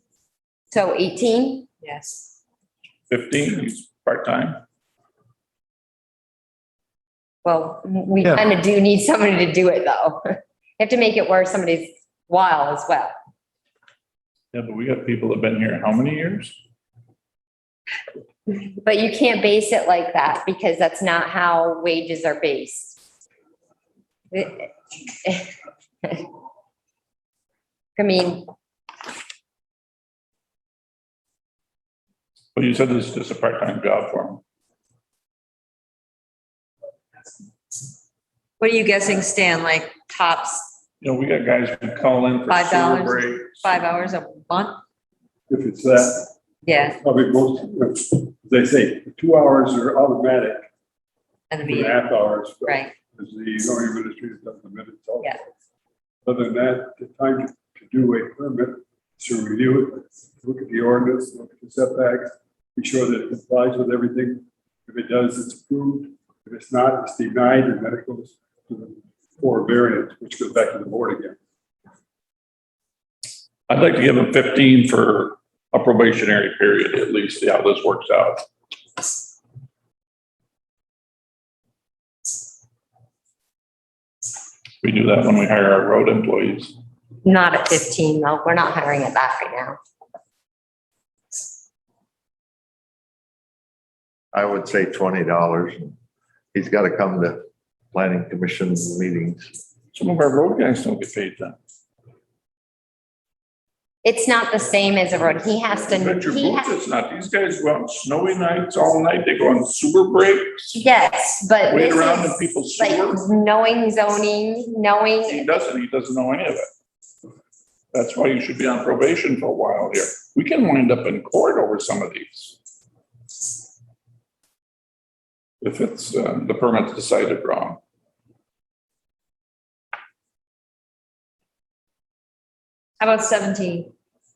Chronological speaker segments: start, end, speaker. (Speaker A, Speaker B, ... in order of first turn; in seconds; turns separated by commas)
Speaker A: 0.7-1.7, Speaker B: 1.8-2.3, Speaker C: 3.1-4.6, Speaker A: 7.4-13.1, Speaker C: 14.5-16.6, Speaker A: 18.5-23.0, Speaker A: 24.3-24.7, Speaker A: 28.0-28.5, Speaker C: 32.5-34.4, Speaker B: 38.6-40.7, Speaker C: 41.0-43.9, Speaker B: 42.5-44.8, Speaker D: 45.5-46.4, Speaker B: 46.6-47.0, Speaker D: 47.0-50.7, Speaker B: 51.5-52.0, Speaker D: 51.6-55.4, Speaker B: 52.6-52.9, Speaker D: 56.2-71.4, Speaker C: 73.7-78.5, Speaker C: 84.8-86.7, Speaker A: 87.2-89.8, Speaker E: 94.3-96.0, Speaker E: 96.5-99.5, Speaker C: 99.9-101.6, Speaker A: 104.0-106.7, Speaker C: 105.9-110.8, Speaker A: 110.7-115.7, Speaker C: 111.7-113.2, Speaker C: 115.3-116.7, Speaker C: 117.9-122.6, Speaker C: 125.6-127.8, Speaker B: 133.0-133.9